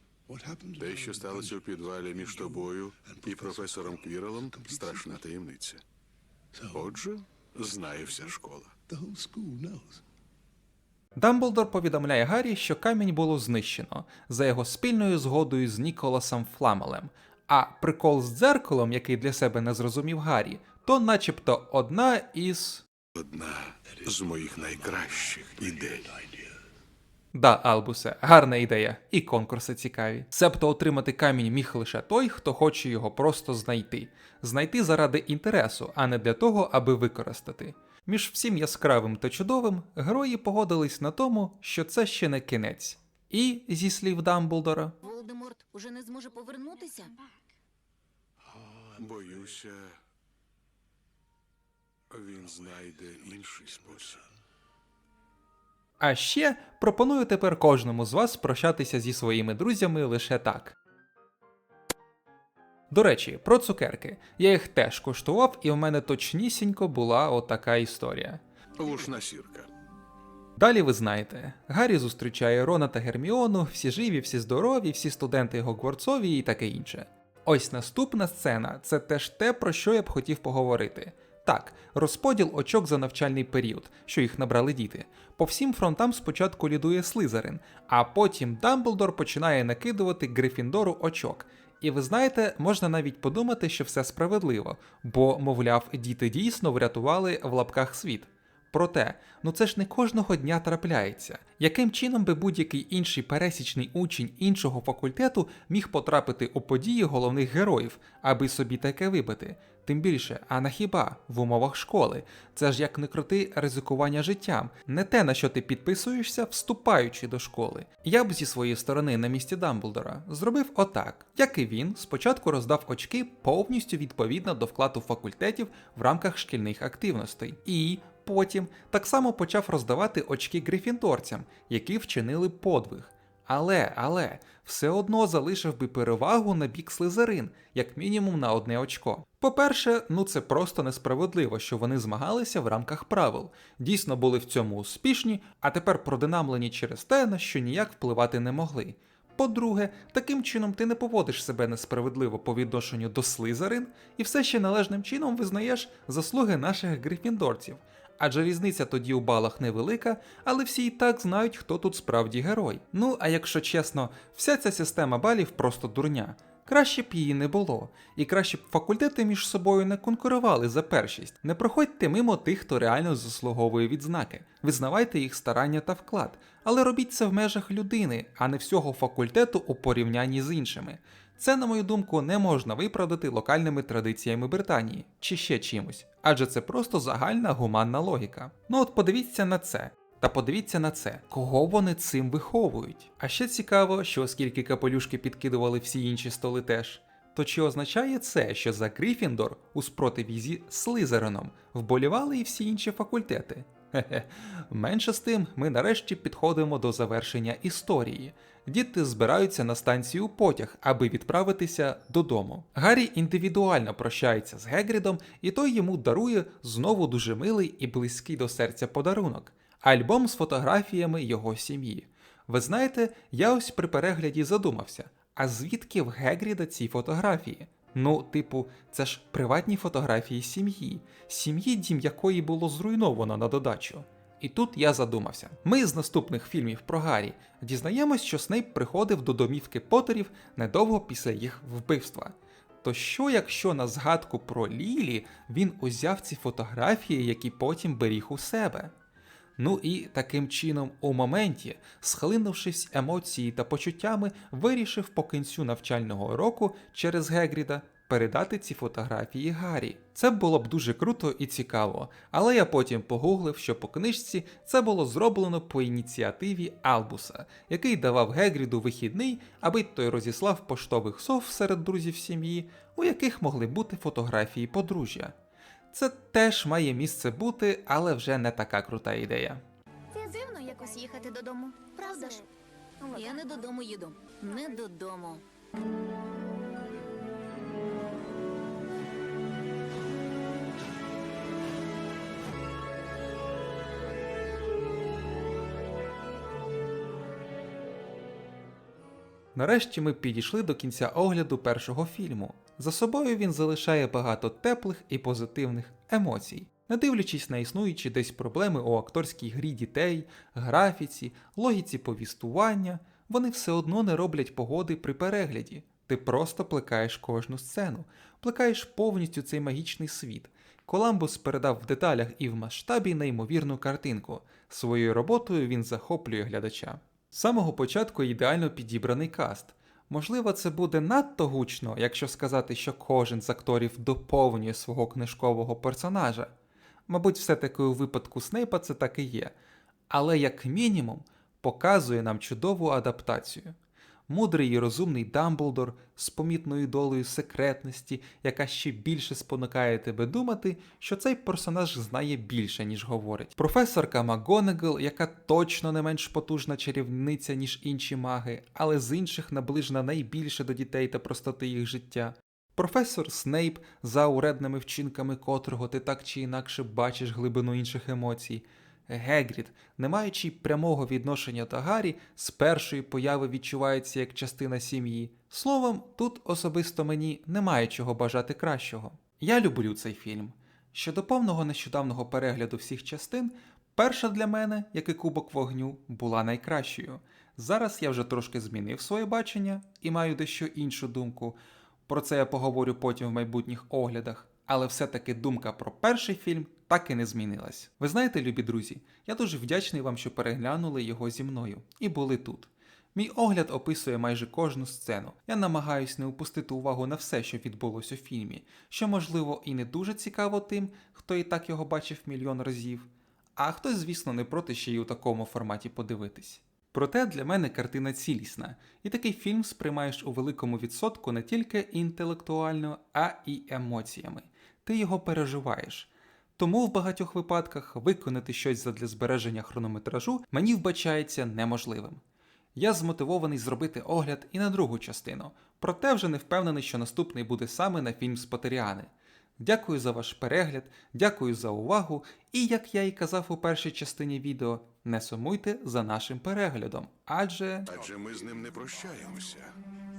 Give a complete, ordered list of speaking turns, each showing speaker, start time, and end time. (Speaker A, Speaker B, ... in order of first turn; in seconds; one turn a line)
Speaker A: 0.3-1.6
Speaker B: 0.8-5.8
Speaker A: 2.2-5.2
Speaker A: 6.5-7.0
Speaker B: 6.7-8.7
Speaker A: 8.9-10.0
Speaker C: 11.2-22.8
Speaker B: 23.2-26.1
Speaker C: 27.3-45.0
Speaker D: 45.0-47.1
Speaker B: 49.0-50.0
Speaker B: 52.1-54.2
Speaker C: 56.0-60.8
Speaker C: 62.9-68.4
Speaker B: 68.8-69.7
Speaker C: 70.6-248.9
Speaker C: 249.6-275.4
Speaker C: 275.9-279.6
Speaker E: 280.1-282.5
Speaker D: 283.1-285.4
Speaker C: 299.6-336.5
Speaker C: 337.1-339.5
Speaker C: 340.1-343.8
Speaker C: 344.3-432.2
Speaker C: 432.8-447.9
Speaker B: 447.9-449.7